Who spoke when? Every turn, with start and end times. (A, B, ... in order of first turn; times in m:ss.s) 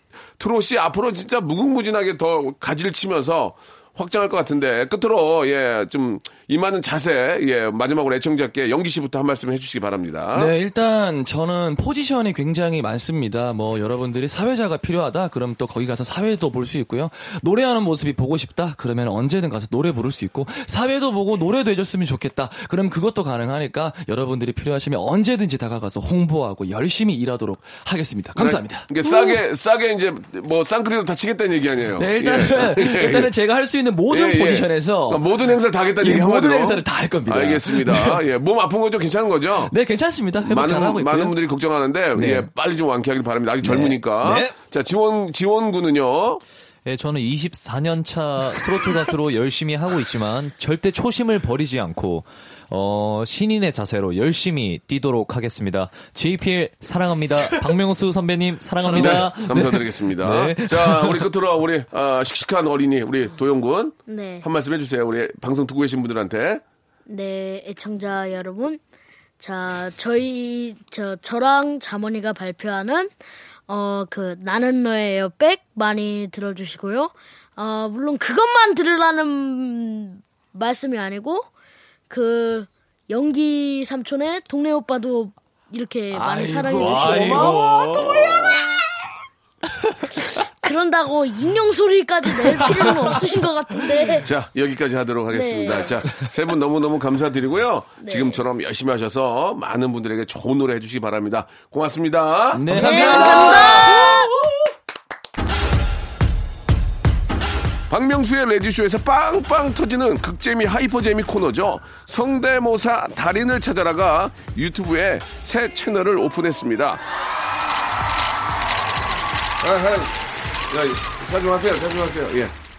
0:00.4-0:10.5 A
0:10.3-0:29.2 B
0:28.4-0:33.3 A
0:32.0-0:35.5 B
0:34.1-0:39.7 A
0:36.0-0:38.2 B
0:39.6-0:41.4 B
0:40.4-0:46.4 A
0:42.1-0:42.5 B
0:43.6-0:44.5 B
0:46.8-1:01.2 C
0:58.8-0:59.6 B
0:58.9-1:06.6 A
1:04.1-1:04.4 D
1:07.1-1:08.8 D
1:09.4-1:13.2 D
1:13.7-1:21.5 D
1:22.1-1:28.7 D
1:26.1-1:28.0 B
1:26.7-1:28.4 C
1:30.2-1:34.3 D
1:34.2-1:44.2 A
1:35.3-1:35.9 D
1:38.0-1:38.4 D
1:42.5-1:44.1 B
1:42.7-1:44.3 D
1:47.9-1:57.0 A
1:59.6-2:02.5 A